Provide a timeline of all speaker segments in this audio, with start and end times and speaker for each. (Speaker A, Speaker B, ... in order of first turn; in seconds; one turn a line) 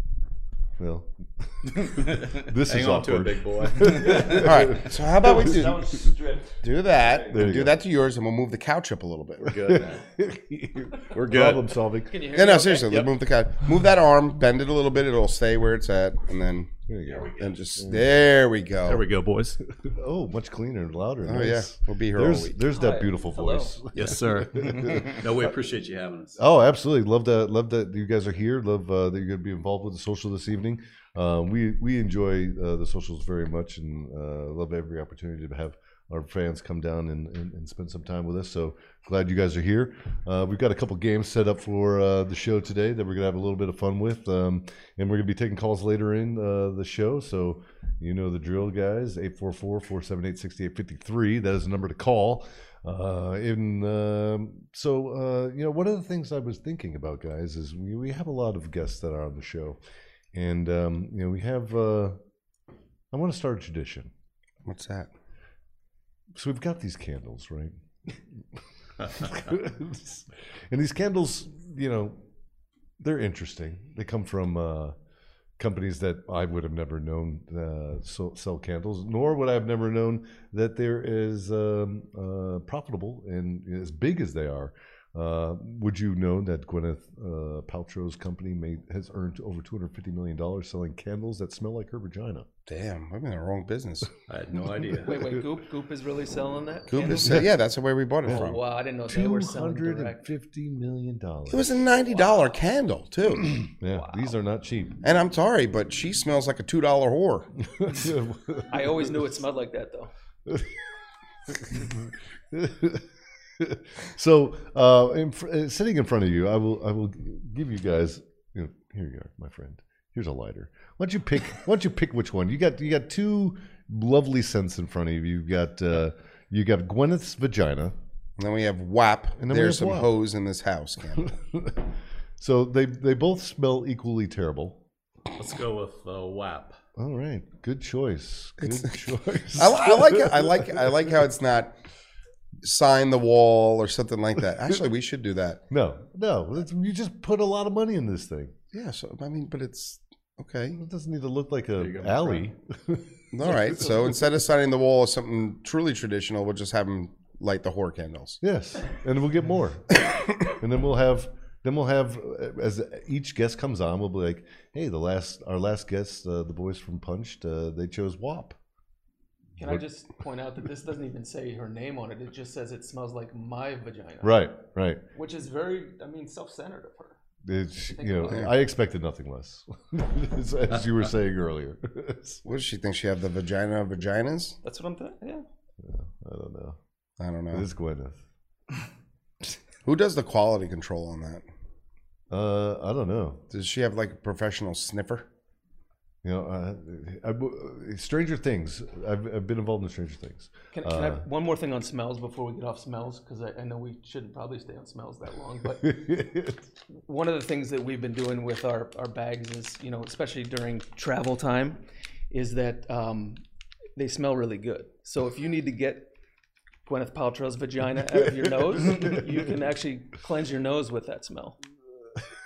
Speaker A: 0.8-6.1
Speaker B: 2.4-4.5
Speaker C: 4.3-9.7
Speaker A: 7.2-7.8
Speaker B: 9.4-10.1
Speaker A: 9.5-12.2
Speaker B: 11.1-11.8
Speaker D: 12.1-13.0
Speaker C: 12.3-16.7
Speaker A: 16.9-18.2
Speaker B: 17.1-17.4
Speaker C: 17.4-19.0
Speaker B: 18.9-19.6
Speaker A: 19.8-25.3
Speaker C: 21.2-22.6
Speaker D: 22.7-23.7
Speaker B: 23.9-26.4
Speaker A: 26.4-59.8
Speaker A: 60.3-62.2
Speaker A: 63.1-64.1
Speaker C: 64.7-65.1
Speaker A: 66.3-67.7
Speaker A: 69.1-72.2
Speaker A: 73.0-75.0
Speaker A: 75.6-92.5
Speaker C: 92.7-94.1
Speaker B: 94.3-95.2
Speaker D: 95.0-97.5
Speaker C: 96.9-98.6
Speaker A: 97.0-97.5
Speaker D: 98.3-100.2
Speaker A: 99.1-101.8
Speaker C: 101.5-103.6
Speaker A: 103.6-105.0
Speaker D: 103.9-104.3
Speaker C: 105.0-107.5
Speaker A: 107.6-109.2
Speaker D: 108.7-110.1
Speaker A: 110.5-110.8
Speaker A: 111.5-113.1
Speaker A: 113.6-128.0
Speaker C: 128.4-131.3
Speaker A: 129.4-130.1
Speaker A: 131.2-134.8
Speaker B: 135.4-136.8
Speaker A: 137.0-141.1
Speaker C: 138.6-138.9
Speaker C: 139.6-141.8
Speaker C: 142.6-145.6
Speaker A: 145.7-148.5
Speaker C: 148.7-150.8
Speaker A: 150.8-154.0
Speaker B: 151.8-152.5
Speaker C: 153.3-158.4
Speaker A: 158.4-168.6
Speaker D: 169.6-174.5
Speaker A: 174.2-175.0
Speaker D: 175.1-177.2
Speaker A: 177.4-182.4
Speaker D: 177.9-178.5
Speaker C: 182.4-184.6
Speaker D: 184.6-185.4
Speaker A: 185.8-186.8
Speaker C: 187.2-187.7
Speaker A: 187.5-188.2
Speaker C: 189.8-191.4
Speaker A: 192.3-193.4
Speaker C: 193.5-195.3
Speaker A: 196.2-201.2
Speaker D: 200.7-206.0
Speaker A: 205.8-206.6
Speaker D: 206.9-213.4
Speaker D: 214.0-216.1
Speaker D: 216.9-221.6
Speaker A: 218.8-219.3